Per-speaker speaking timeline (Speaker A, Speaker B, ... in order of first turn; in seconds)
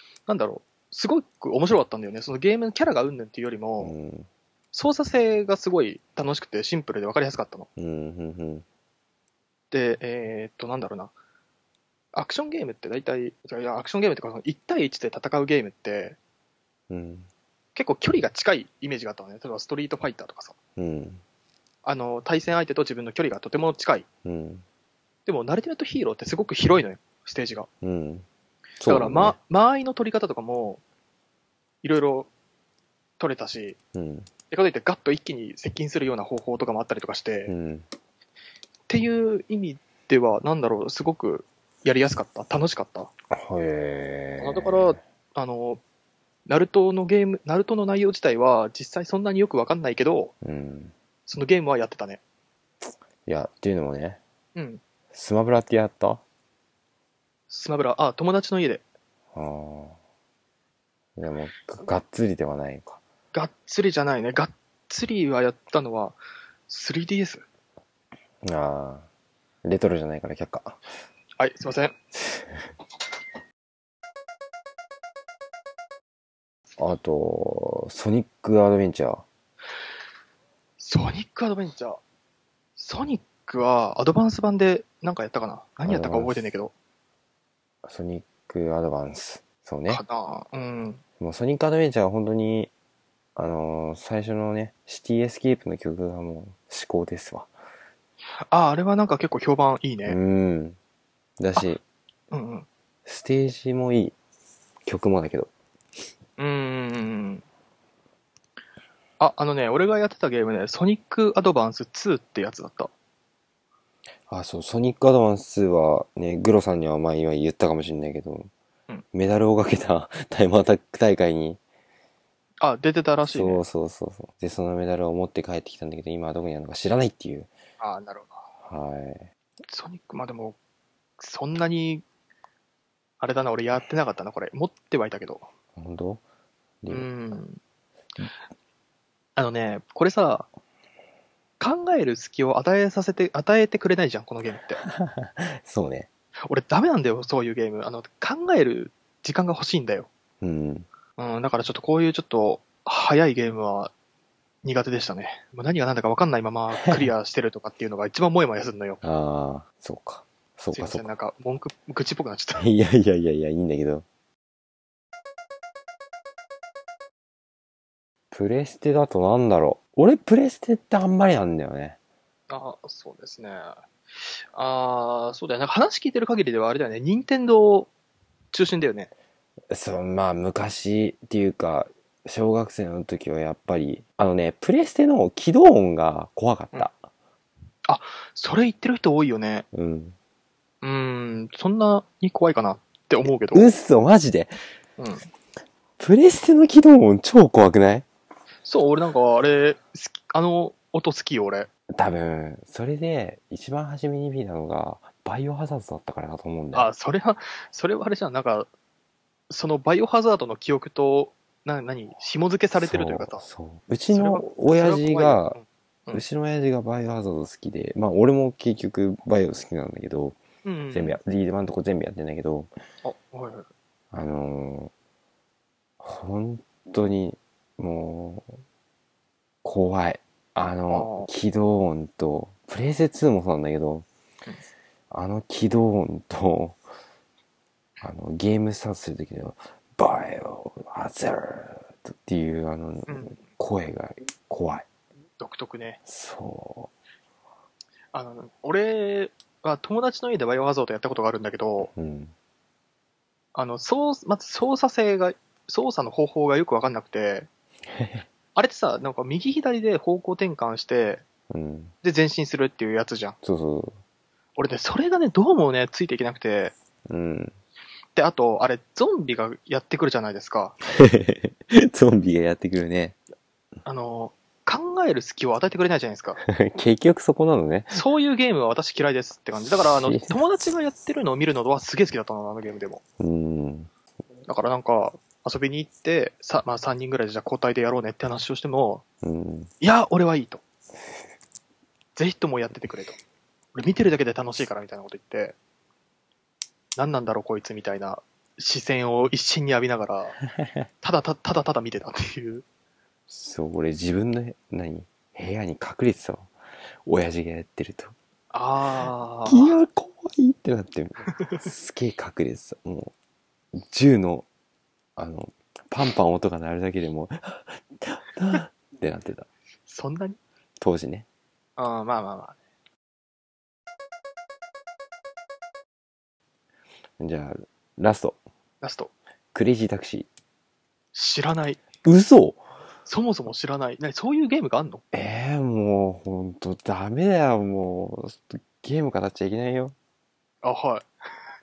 Speaker A: 0.3-3.9, 4.7-7.7, 9.7-11.1, 12.1-16.2, 17.7-20.6, 21.8-24.1, 25.2-27.7, 28.9-30.8, 31.8-32.3, 33.2-33.8, 34.5-37.5, 38.9-43.1, 44.4-45.8, 46.5-50.3, 51.3-52.2, 54.5-54.8, 57.5-58.8, 63.3-67.4, 71.4-71.9, 80.8-82.0, 82.8-86.7, 89.9-91.0, 98.4-100.2, 102.3-102.7, 106.4-107.4, 109.2-112.9, 122.6-123.6, 127.8-128.4, 129.7-130.6, 131.2-132.0, 133.2-135.5, 136.9-137.6, 139.3-140.5, 141.6-144.8, 146.5-150.1, 151.2-153.9, 154.6-159.0, 160.7-162.7, 172.5-173.7, 174.2-177.9, 178.5-179.1, 187.9-189.6, 190.8-193.7, 195.0-195.2, 198.6-201.7, 206.7-208.7, 209.5-213.4, 214.1-216.2, 220.6-221.2, 223.0-223.7, 230.9-231.3, 243.1-243.4, 245.4-246.0, 248.1-251.9, 253.5-257.5, 258.5-261.2, 262.0-263.4, 264.6-266.7, 268.1-270.8, 273.8-276.4, 277.9-283.0, 284.5-289.0, 289.8-290.6, 292.1-293.2, 293.7-295.6, 297.0-300.4, 301.0-302.6, 308.5-309.8, 311.4-311.6, 319.9-320.4, 321.8-322.6, 328.8-329.1, 331.1-331.8, 333.0-335.0, 340.6-341.1
Speaker B: 3.8-4.3, 7.8-8.6, 16.9-17.3, 20.8-21.2, 24.2-24.6, 27.8-28.2, 28.8-29.4, 33.9-34.3, 37.5-37.9, 43.3-45.0, 50.4-50.9, 53.2-54.2, 55.1-56.2, 59.3-60.0, 61.2-63.0, 68.4-69.1, 69.6-70.8, 76.8-79.2, 85.8-86.5, 87.8-90.0, 91.2-92.7, 93.3-97.5, 100.0-100.8, 101.4-101.8, 103.0-104.1, 104.8-105.5, 114.3-118.5, 119.1-121.6, 123.2-127.5, 128.6-129.2, 135.8-136.2, 136.8-137.1, 144.8-146.1, 150.4-150.9, 159.0-161.1, 162.6-164.0, 168.3-172.0, 179.7-187.0, 189.7-190.2, 193.5-194.5, 196.0-198.1, 201.9-206.9, 212.8-215.6, 216.1-220.4, 220.9-222.7, 224.1-224.9, 226.0-228.5, 229.6-234.1, 235.1-236.8, 238.0-244.8, 246.1-246.9, 251.9-252.3, 257.9-258.3, 261.5-261.9, 263.4-264.0, 267.1-267.5, 270.8-273.2, 276.4-278.0, 279.8-280.4, 283.2-283.9, 289.2-289.7, 303.3-306.5, 307.0-308.1, 309.4-313.1, 313.7-314.4, 315.1-319.5, 320.8-321.2, 327.2-328.4, 329.5-330.3, 332.0-332.6, 335.1-339.9